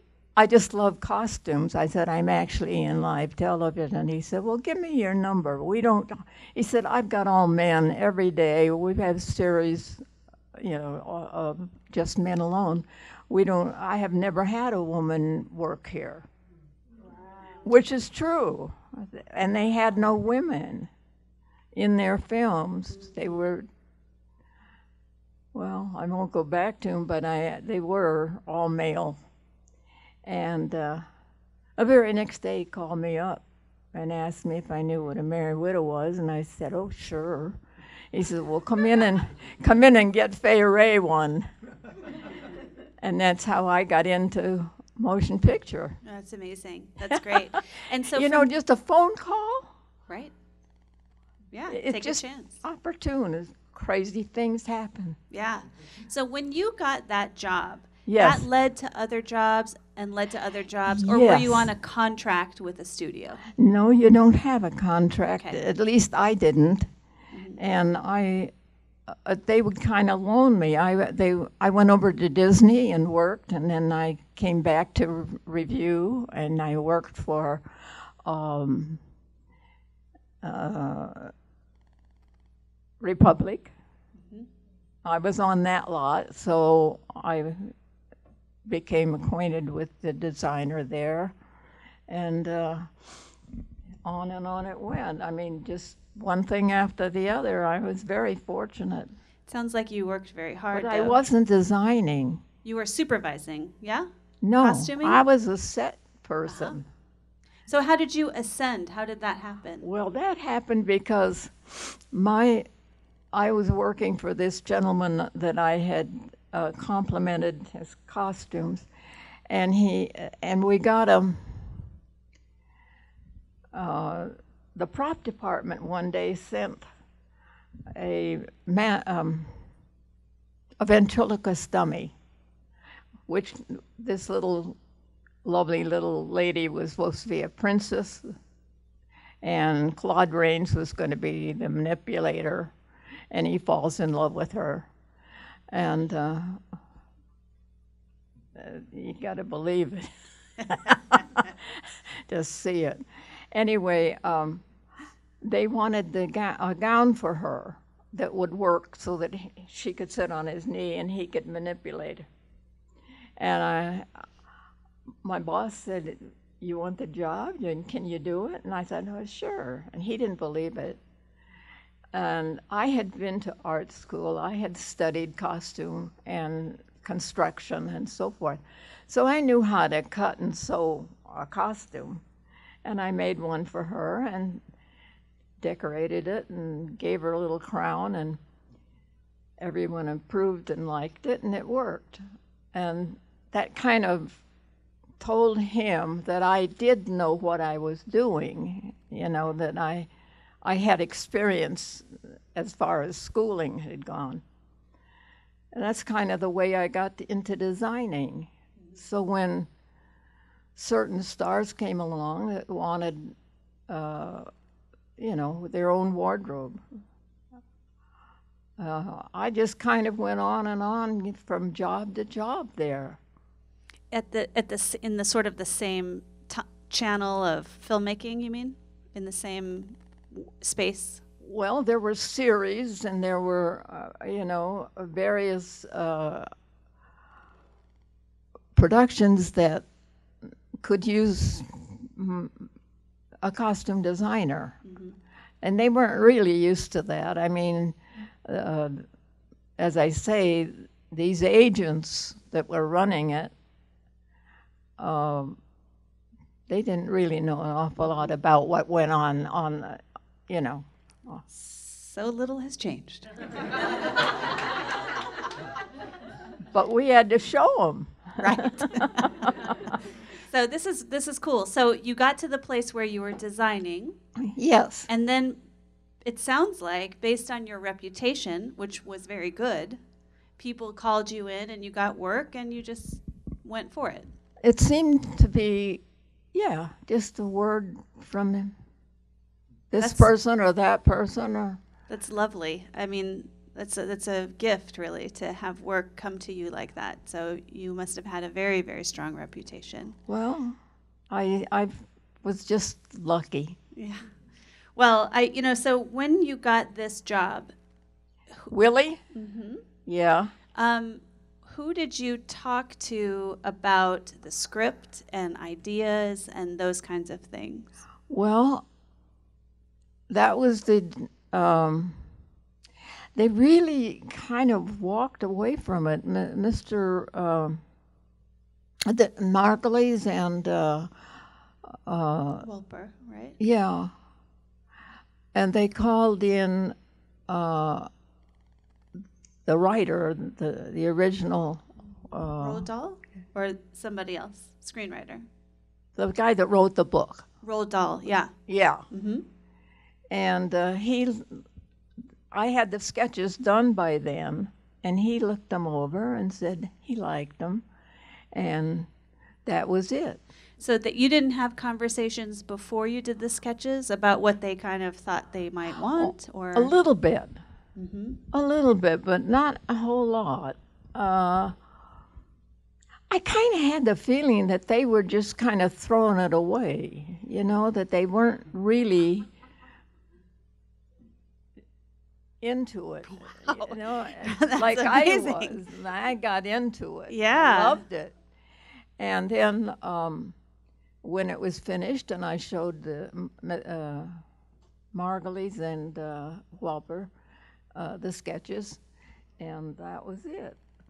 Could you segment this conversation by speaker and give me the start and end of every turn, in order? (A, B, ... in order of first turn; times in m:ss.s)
0:00.4-0:10.0 A
0:10.5-0:16.3 A
0:17.6-0:20.9 A
0:21.8-0:23.7 A
0:25.5-0:29.2 A
0:30.2-0:31.0 A
0:31.8-0:37.6 A
0:38.1-0:41.5 A
0:43.0-0:46.0 A
0:46.0-0:48.5 B
0:47.1-0:47.6 A
0:48.1-0:49.7 A
0:50.1-0:50.3 B
0:51.5-0:52.6 B
0:51.7-0:55.2 A
0:55.3-1:03.4 B
0:58.1-0:58.5 A
1:00.9-1:01.7 A
1:03.6-1:06.9 A
1:07.3-1:07.6 B
1:07.6-1:08.5 A
1:09.1-1:19.0 A
1:20.4-1:21.3 A
1:23.0-1:23.7 A
1:25.0-1:27.7 A
1:28.6-1:31.4 A
1:32.1-1:32.9 A
1:34.0-1:39.1 A
1:39.5-1:41.2 B
1:40.7-1:42.4 A
1:42.6-1:44.1 B
1:44.4-1:46.9 A
1:44.6-1:45.2 B
1:46.5-1:46.8 B
1:47.7-1:49.9 B
1:49.8-1:52.7 A
1:53.3-1:58.9 A
1:59.5-2:01.9 A
2:03.7-2:06.8 A
2:07.9-2:09.5 A
2:10.8-2:12.1 A
2:13.3-2:14.8 A
2:15.4-2:18.3 A
2:19.4-2:22.7 A
2:23.3-2:24.9 A
2:25.7-2:26.6 A
2:28.6-2:30.1 A
2:30.7-2:34.6 A
2:35.4-2:42.3 A
2:43.4-2:44.2 A
2:45.2-2:51.0 A
2:52.1-3:02.2 A
3:02.8-3:04.6 A
3:05.6-3:08.4 A
3:09.6-3:14.4 A
3:15.2-3:20.1 A
3:20.6-3:24.4 A
3:25.7-3:29.7 A
3:30.8-3:33.4 A
3:33.9-3:34.5 A
3:35.2-3:36.8 A
3:38.8-3:43.2 A
3:44.1-3:51.2 B
3:51.4-3:56.5 A
3:58.7-3:59.8 A
4:00.8-4:02.7 A
4:03.4-4:04.8 A
4:04.9-4:05.2 B
4:05.6-4:09.0 A
4:09.8-4:13.5 A
4:15.0-4:15.6 A
4:16.7-4:21.4 A
4:21.5-4:23.3 B
4:26.7-4:30.0 A
4:28.4-4:29.3 B
4:30.4-4:34.2 B
4:34.4-4:35.1 A
4:35.1-4:35.6 B
4:36.2-4:40.0 B
4:40.6-4:44.3 B
4:44.6-4:46.0 A
4:46.5-4:48.8 A
4:49.9-4:51.8 A
4:50.0-4:50.3 B
4:52.1-5:00.2 B
5:00.3-5:00.8 A
5:01.3-5:03.8 A
5:04.0-5:04.3 B
5:05.0-5:07.7 B
5:08.7-5:09.2 A
5:09.3-5:09.8 B
5:10.1-5:10.5 A
5:10.8-5:18.0 B
5:18.3-5:18.8 A
5:20.3-5:22.2 A
5:23.4-5:27.8 A
5:29.1-5:31.1 A
5:31.9-5:32.7 A
5:32.6-5:33.6 B
5:33.6-5:34.1 A
5:35.5-5:37.0 A
5:37.5-5:38.1 A
5:39.7-5:42.9 A
5:42.6-5:45.4 B
5:46.2-5:47.5 A
5:47.6-5:48.5 B
5:48.7-5:49.0 A
5:49.1-5:49.4 B
5:50.3-5:51.6 A
5:52.5-5:57.8 A
5:58.5-5:59.1 A
5:59.6-6:00.4 A
6:00.8-6:06.9 B
6:06.1-6:07.6 A
6:08.0-6:08.4 B
6:08.5-6:11.8 A
6:13.3-6:19.5 A
6:22.6-6:28.3 A
6:23.3-6:25.8 B
6:27.3-6:28.0 B
6:29.2-6:30.6 A
6:31.2-6:34.4 A
6:35.1-6:37.3 A
6:37.9-6:39.0 A
6:39.6-6:40.8 A